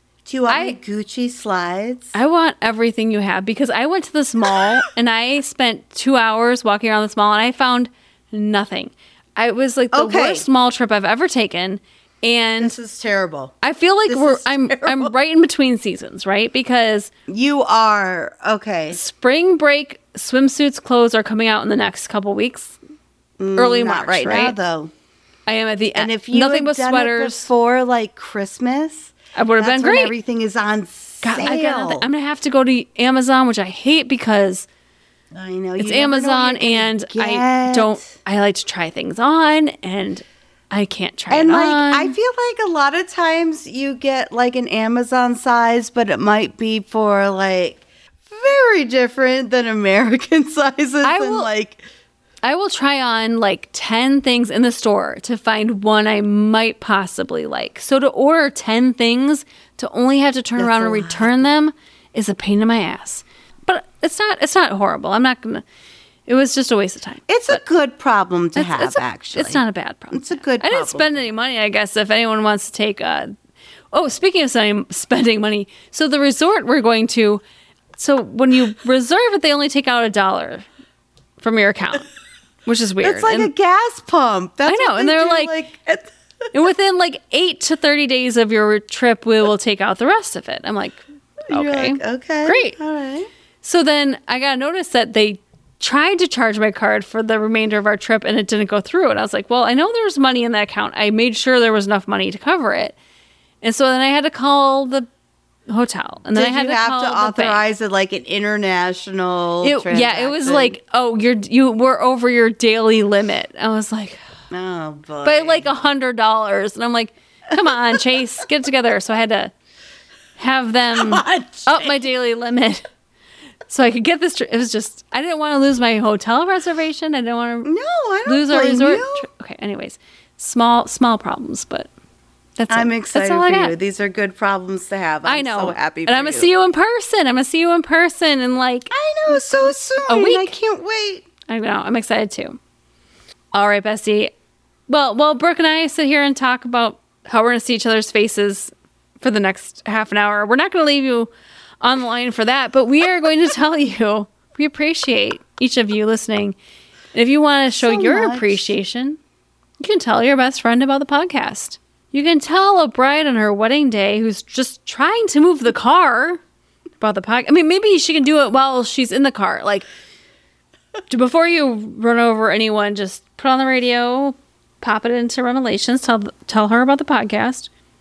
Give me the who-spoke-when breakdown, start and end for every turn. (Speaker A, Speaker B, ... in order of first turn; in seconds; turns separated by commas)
Speaker A: 0.2-2.1, Speaker B: 0.5-0.8, Speaker B: 2.1-12.8, Speaker A: 9.9-10.4, Speaker A: 12.6-13.5, Speaker B: 13.6-17.1, Speaker A: 14.1-15.1, Speaker A: 17.3-19.0, Speaker B: 18.9-22.8, Speaker A: 23.4-24.9, Speaker B: 23.6-24.6, Speaker B: 25.5-27.5, Speaker A: 25.9-32.1, Speaker B: 29.3-30.1, Speaker B: 31.2-34.7, Speaker A: 35.3-38.0, Speaker B: 35.8-42.1, Speaker A: 41.3-51.8, Speaker B: 51.0-51.5, Speaker B: 52.4-65.6, Speaker A: 60.6-61.4, Speaker B: 66.3-67.6, Speaker A: 67.3-71.1, Speaker B: 68.5-73.3, Speaker B: 73.9-77.4, Speaker B: 78.0-80.7, Speaker B: 81.4-82.1, Speaker B: 82.7-83.5, Speaker A: 83.0-86.1, Speaker B: 84.7-85.5, Speaker B: 86.5-92.8, Speaker A: 91.5-93.3, Speaker B: 93.6-103.0, Speaker B: 103.6-105.1, Speaker B: 105.7-107.6, Speaker A: 106.3-110.8, Speaker B: 109.6-114.2, Speaker A: 114.5-115.7, Speaker B: 115.2-119.5, Speaker A: 117.6-118.0, Speaker B: 120.4-122.9, Speaker A: 120.9-122.1, Speaker B: 123.7-127.7, Speaker A: 127.6-129.3, Speaker B: 128.2-131.9, Speaker B: 132.6-133.7, Speaker A: 132.7-136.5, Speaker B: 135.2-138.9, Speaker A: 138.9-141.2, Speaker B: 140.1-140.5, Speaker B: 141.5-142.6, Speaker B: 143.5-144.3, Speaker B: 144.9-151.3, Speaker B: 151.8-156.6, Speaker B: 157.1-159.2, Speaker A: 157.7-158.7, Speaker B: 159.8-166.4, Speaker B: 167.0-169.9, Speaker B: 171.1-177.7